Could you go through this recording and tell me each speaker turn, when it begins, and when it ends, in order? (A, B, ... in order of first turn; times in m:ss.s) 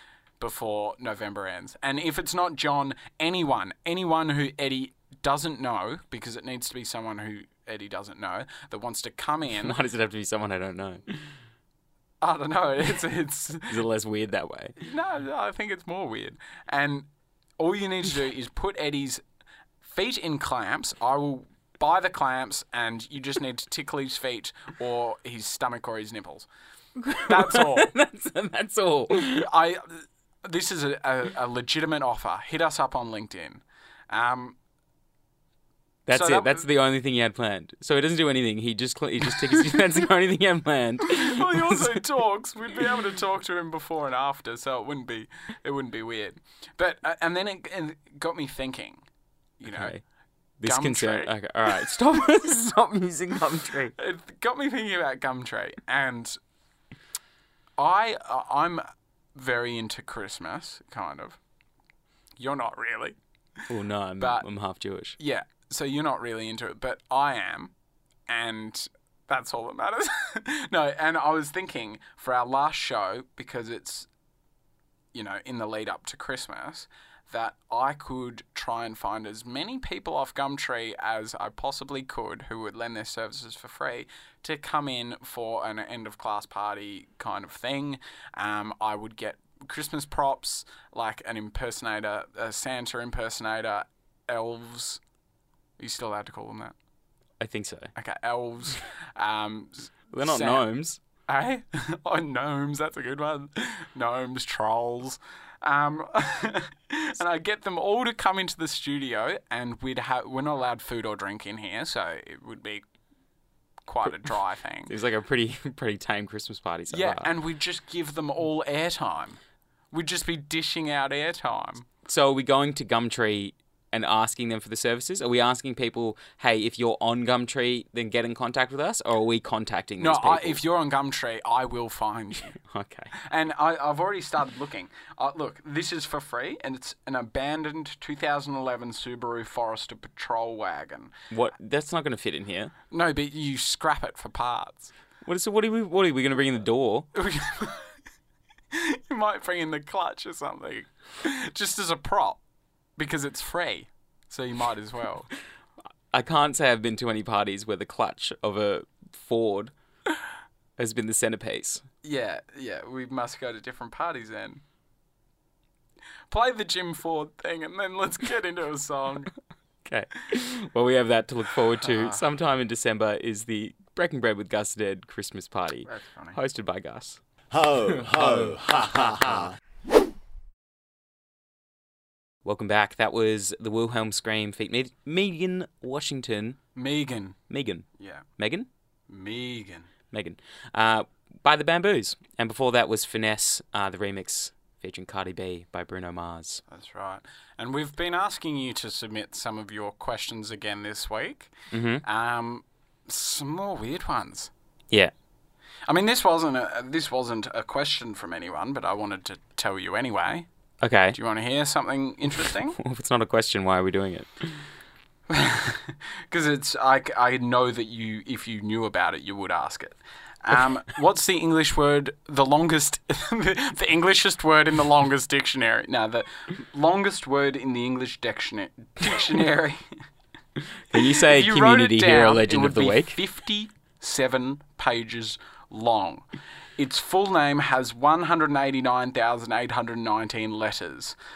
0:00.4-0:09.8 A
0:09.5-0:11.0 B
0:12.2-0:13.8 A
0:13.7-0:14.8 B
0:14.8-0:17.1 A
0:17.6-0:19.2 A
0:19.8-0:26.5 A
0:27.0-0:29.5 B
0:27.2-0:27.9 A
0:29.3-0:34.6 A
0:36.1-0:42.0 B
0:36.1-0:36.6 A
0:41.2-0:49.0 A
0:49.6-0:50.0 A
0:49.7-0:50.0 B
0:50.6-0:53.9 B
0:50.6-0:51.3 A
0:54.0-0:56.4 A
0:57.8-1:01.4 A
1:02.4-1:03.2 A
1:03.7-1:05.2 B
1:04.2-1:04.4 A
1:05.2-1:07.7 A
1:08.3-1:14.1 A
1:15.1-1:35.0 A
1:35.8-1:36.7 A
1:37.4-1:37.9 B
1:38.0-1:40.6 A
1:40.1-1:41.0 B
1:41.3-1:52.8 A
1:53.9-1:54.9 A
1:54.9-1:57.3 B
1:56.9-1:59.4 A
1:59.9-2:01.9 A
2:02.0-2:10.6 B
2:10.0-2:12.6 A
2:12.6-2:13.1 B
2:13.3-2:21.1 A
2:21.3-2:22.7 B
2:22.9-2:24.9 A
2:25.2-2:27.1 B
2:27.2-2:27.9 A
2:28.7-2:32.4 A
2:33.0-2:35.3 A
2:36.1-2:39.7 B
2:40.8-2:41.8 B
2:42.0-2:44.6 A
2:46.3-2:49.3 A
2:49.8-2:57.2 B
2:51.8-2:52.2 A
2:55.9-2:56.4 A
2:57.5-2:59.5 C
3:02.4-3:06.6 B
3:06.8-3:07.4 A
3:07.5-3:07.9 B
3:08.0-3:08.3 A
3:08.4-3:08.7 B
3:09.1-3:09.9 A
3:10.1-3:16.6 B
3:16.7-3:21.5 A
3:21.7-3:22.0 B
3:22.0-3:24.5 A
3:25.9-3:30.5 A
3:30.8-3:31.2 B
3:31.1-3:32.8 A
3:32.8-3:34.6 B
3:35.3-3:49.8 A
3:50.9-3:53.2 B
3:51.0-3:56.3 A
3:56.8-4:01.2 A